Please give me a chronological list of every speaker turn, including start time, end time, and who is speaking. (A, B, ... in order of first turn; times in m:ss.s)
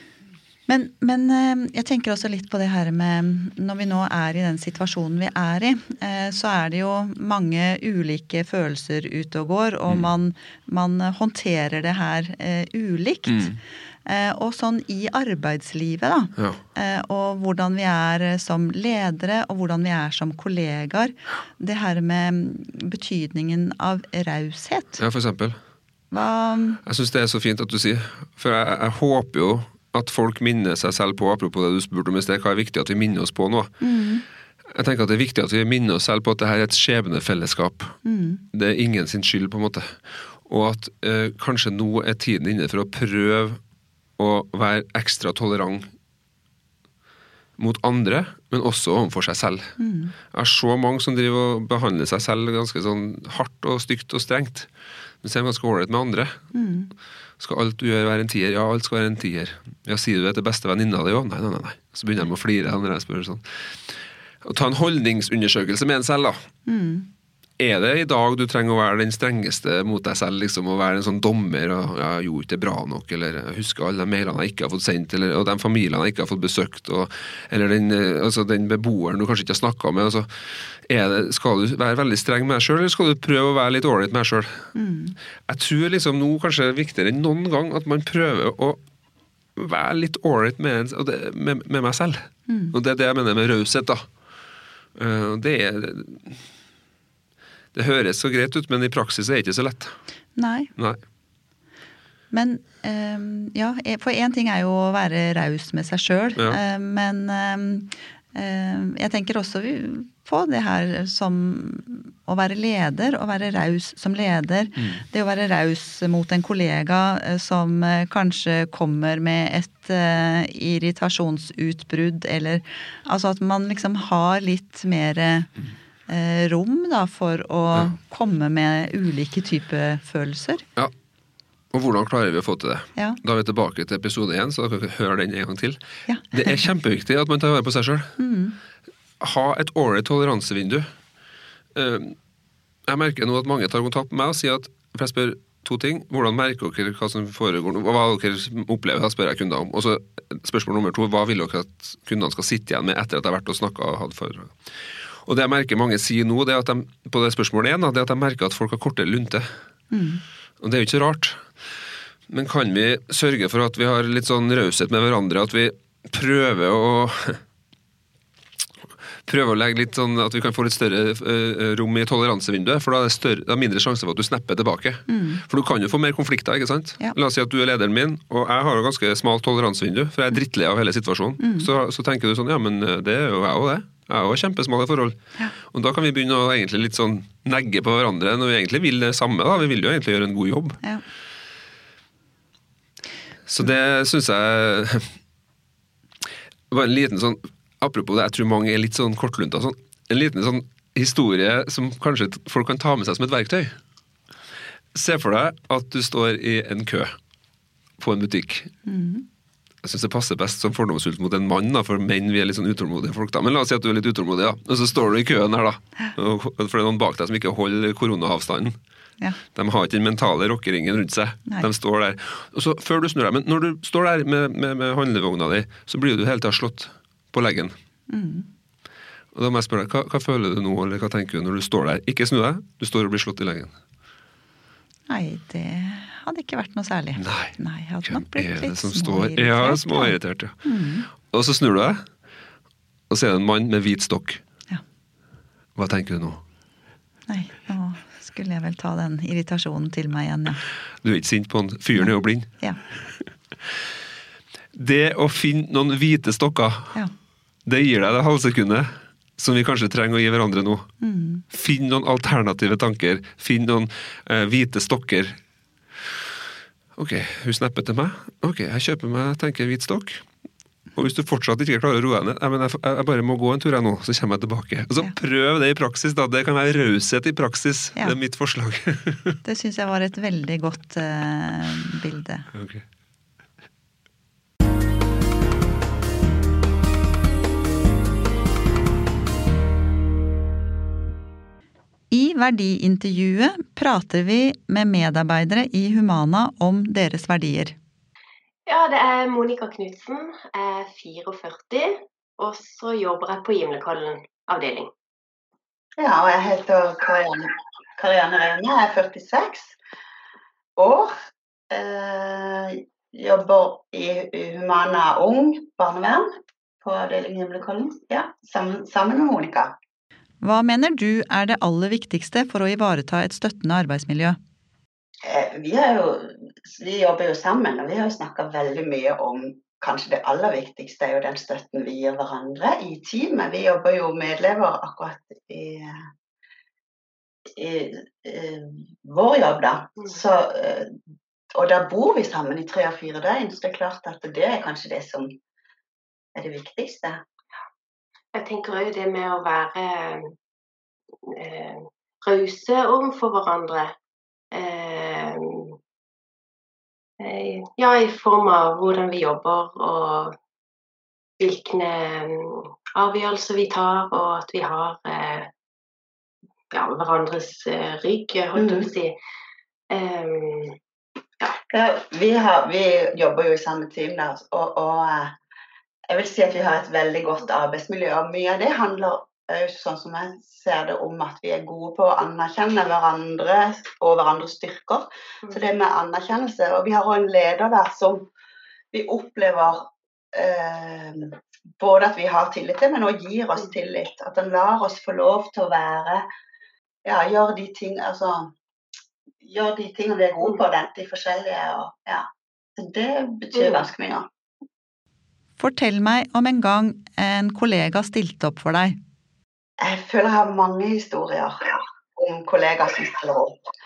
0:00.7-0:13.5 A
0:13.3-0:13.6 B
0:14.0-0:25.0 A
0:25.0-0:25.6 B
0:26.1-0:26.8 A
0:26.8-0:33.8 B
0:33.8-0:34.2 A
0:34.7-0:43.6 B
0:38.0-0:38.4 A
0:44.2-0:45.9 B
0:47.6-0:49.7 B
0:49.8-0:50.1 A
0:50.3-0:54.7 B
0:55.2-0:56.4 B
0:56.5-0:56.9 A
0:57.4-1:03.4 B
1:04.4-1:06.4 B
1:06.6-1:07.1 A
1:07.6-1:24.7 B
1:24.7-1:25.1 A
1:25.5-1:28.8 B
1:29.6-1:34.0 B
1:32.5-1:32.8 A
1:35.0-1:36.4 B
1:37.7-1:39.9 B
1:40.4-1:40.7 A
1:42.3-2:05.5 A
1:54.8-1:55.0 B
2:06.1-2:10.6 A
2:11.7-2:15.8 B
2:16.1-2:16.6 A
2:16.3-2:18.1 B
2:18.2-2:18.6 A
2:19.2-2:20.9 B
2:21.7-2:22.2 B
2:22.9-2:34.7 B
2:35.2-2:39.5 B
2:39.9-2:40.2 A
2:40.6-2:41.4 B
2:42.3-2:47.4 B
2:49.2-3:05.2 B
2:55.1-2:55.4 A
3:01.4-3:01.7 A
3:05.7-3:10.8 B
3:13.5-3:15.1 B
3:16.7-3:23.7 B
3:24.9-3:27.2 B
3:28.0-3:28.7 B
3:28.8-3:29.2 A
3:29.8-3:38.7 B
3:39.5-3:47.7 B
3:48.1-3:48.5 A
3:49.3-3:53.8 B
3:55.1-4:01.1 A
3:57.2-4:00.6 B
4:01.1-4:02.0 B
4:03.1-4:04.4 B
4:05.8-4:06.4 B
4:07.3-4:10.6 A
4:11.0-4:12.5 B
4:12.0-4:12.8 A
4:14.7-4:17.0 B
4:17.6-4:20.9 B
4:21.0-4:21.4 A
4:21.5-4:25.4 B
4:27.0-4:30.2 B
4:30.9-4:39.4 B
4:39.4-4:42.5 A
4:42.5-4:42.8 B
4:52.1-4:57.8 A
4:58.7-5:04.9 C
5:06.0-5:09.8 D
5:10.8-5:11.1 D
5:11.7-5:16.3 D
5:16.8-5:19.7 D
5:20.4-5:24.4 A
5:25.2-5:36.0 D
5:37.6-5:40.9 D
5:41.5-5:45.3 D
5:46.3-5:47.2 D
5:48.3-5:50.3 C
5:51.2-5:54.0 C
5:54.5-5:55.8 C
5:57.2-6:00.3 C
6:01.4-6:05.5 C
6:06.7-6:09.1 C
6:08.6-6:08.9 D
6:09.9-6:10.8 C
6:11.7-6:15.4 D
6:16.1-6:28.3 D
6:28.9-6:36.2 D
6:37.0-6:38.5 D
6:39.4-6:42.2 D
6:42.8-6:44.3 D
6:43.5-6:43.9 C
6:45.6-6:49.0 A
6:49.8-6:53.6 D